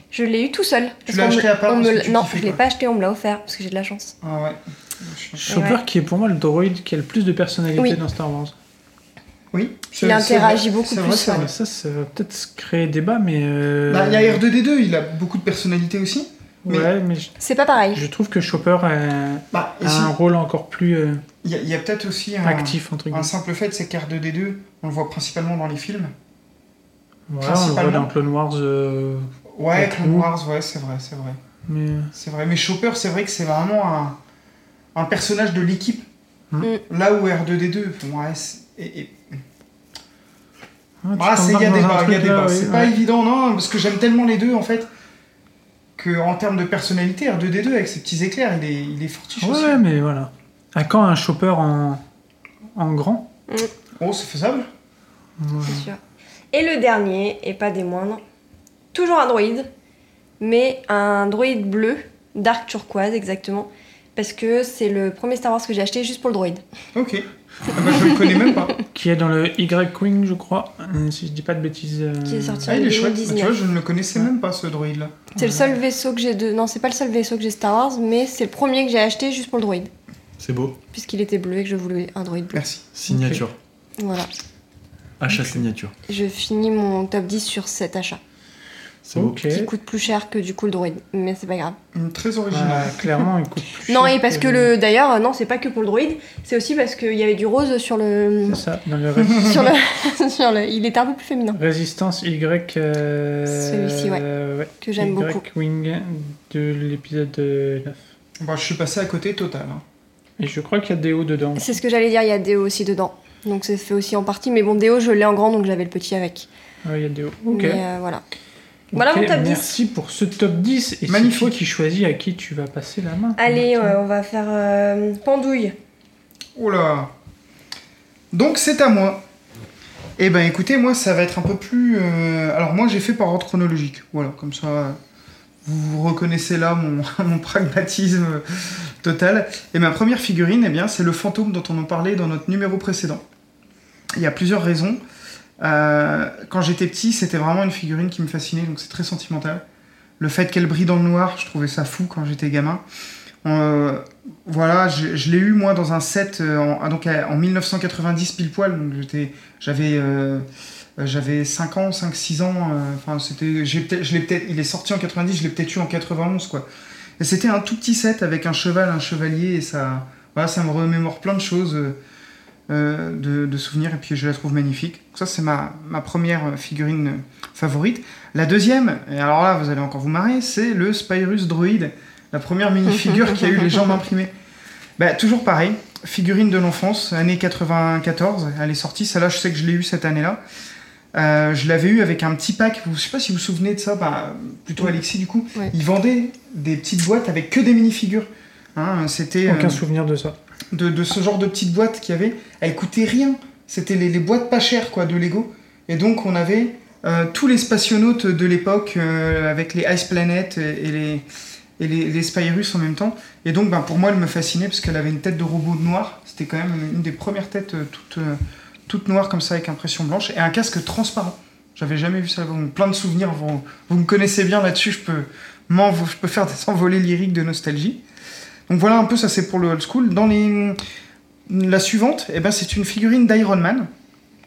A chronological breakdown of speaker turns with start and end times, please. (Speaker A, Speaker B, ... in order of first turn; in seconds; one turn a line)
Speaker A: 0.1-4.1
Speaker B: 1.1-2.6
Speaker B: 4.2-5.6
Speaker C: 5.4-8.5
Speaker A: 5.5-5.8
Speaker B: 9.5-11.5
Speaker A: 10.0-11.5
Speaker C: 11.3-14.4
Speaker B: 13.9-16.9
Speaker C: 16.6-17.3
Speaker A: 17.4-18.0
Speaker C: 17.9-21.2
Speaker B: 19.5-20.1
Speaker B: 21.4-26.1
Speaker C: 22.4-23.3
Speaker C: 27.3-30.3
Speaker B: 27.4-28.1
Speaker B: 29.5-31.4
Speaker C: 31.7-32.1
Speaker B: 32.1-34.2
Speaker B: 34.9-36.0
Speaker B: 36.9-39.4
Speaker C: 41.0-42.9
Speaker B: 41.1-44.9
Speaker B: 46.0-49.8
Speaker C: 49.4-52.0
Speaker C: 52.8-53.3
Speaker B: 54.0-54.7
Speaker C: 55.4-55.9
Speaker A: 55.6-56.0
Speaker A: 56.5-58.2
Speaker A: 58.9-59.7
Speaker A: 60.4-66.6
Speaker B: 66.9-68.7
Speaker C: 68.9-72.7
Speaker A: 72.2-73.5
Speaker B: 72.7-75.2
Speaker A: 75.3-79.9
Speaker C: 75.4-75.7
Speaker D: 80.4-80.8
Speaker A: 80.9-82.6
Speaker B: 82.5-82.8
Speaker D: 82.9-83.5
Speaker C: 83.1-83.4
Speaker A: 84.0-84.3
Speaker D: 85.2-85.9
Speaker A: 86.1-88.2
Speaker D: 89.0-89.4
Speaker C: 89.1-89.7
Speaker A: 89.5-91.8
Speaker B: 91.9-93.0
Speaker C: 92.5-94.7
Speaker A: 93.9-98.6
Speaker C: 98.5-99.6
Speaker A: 99.3-101.6
Speaker C: 101.5-108.0
Speaker A: 103.5-104.2
Speaker A: 104.8-105.4
Speaker B: 108.4-109.8
Speaker C: 110.4-111.8
Speaker A: 111.5-116.5
Speaker C: 116.8-117.8
Speaker A: 117.5-118.2
Speaker A: 118.9-119.7
Speaker C: 118.9-124.0
Speaker B: 121.1-121.6
Speaker A: 123.4-125.7
Speaker B: 126.5-127.1
Speaker B: 128.3-129.2
Speaker B: 130.2-135.0
Speaker B: 135.6-143.2
Speaker B: 144.1-145.0
Speaker B: 145.6-149.6
Speaker B: 150.2-152.8
Speaker B: 153.4-160.4
Speaker B: 161.0-166.7
Speaker B: 167.2-172.0
Speaker B: 172.7-184.3
Speaker B: 185.0-190.4
Speaker B: 191.1-199.8
Speaker C: 199.4-200.4
Speaker B: 200.7-211.2
Speaker B: 211.8-228.0
Speaker B: 228.7-230.8
Speaker B: 231.5-233.9